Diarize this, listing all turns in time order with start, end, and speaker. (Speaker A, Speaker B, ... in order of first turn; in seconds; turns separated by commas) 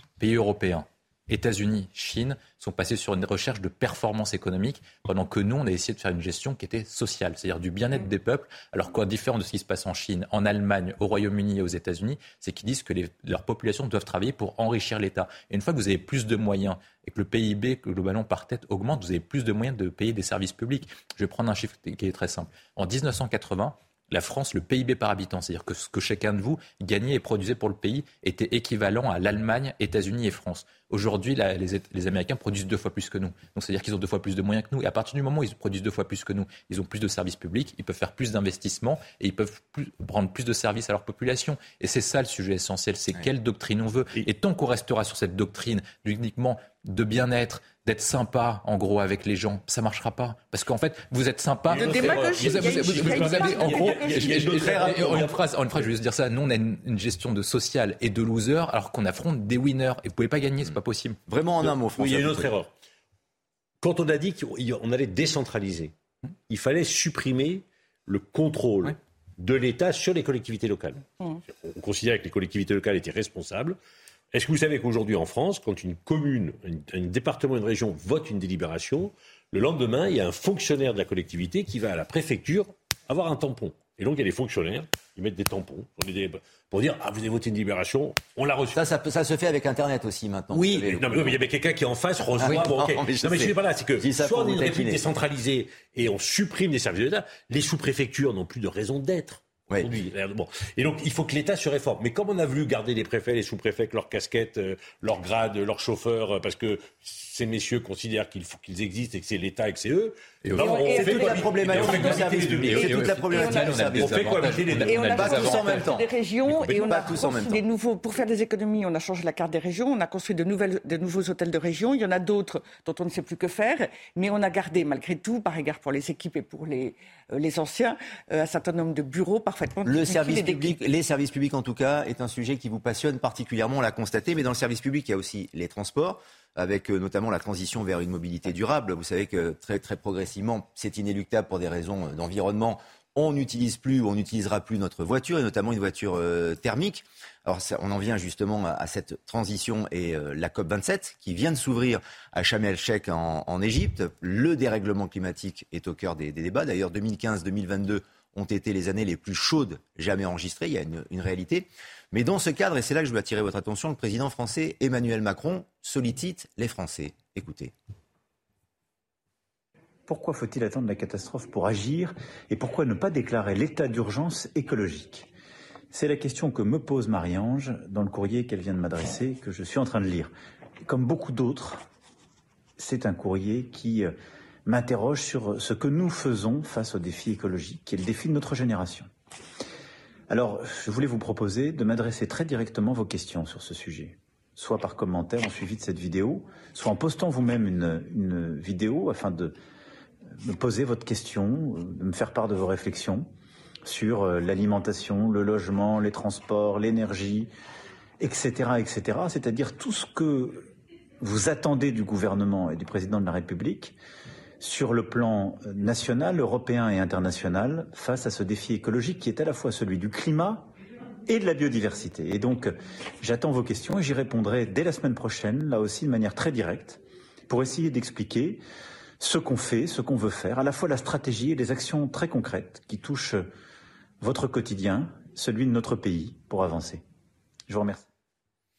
Speaker A: 0.2-61.2, Speaker B: 51.7-55.9, Speaker C: 51.8-54.5, Speaker D: 54.5-55.3, Speaker D: 61.3-62.5, Speaker B: 61.8-62.7, Speaker B: 63.8-65.9, Speaker B: 66.5-73.8, Speaker B: 74.3-88.8, Speaker D: 88.8-91.4, Speaker B: 90.5-113.1, Speaker D: 92.4-95.0, Speaker D: 99.7-100.0, Speaker A: 110.4-116.0, Speaker C: 110.6-112.2, Speaker D: 110.6-117.6, Speaker C: 113.3-113.8, Speaker B: 113.8-115.6, Speaker C: 114.8-130.8, Speaker D: 129.8-167.7, Speaker E: 170.1-175.3, Speaker E: 175.9-180.3, Speaker E: 180.8-181.8, Speaker E: 182.8-184.1, Speaker E: 184.7-189.1, Speaker E: 190.3-199.6, Speaker E: 200.4-203.3, Speaker E: 203.8-207.5, Speaker E: 208.2-214.0, Speaker E: 214.6-220.7, Speaker E: 221.3-228.6, Speaker E: 229.2-233.5, Speaker E: 234.2-237.0, Speaker E: 237.7-238.1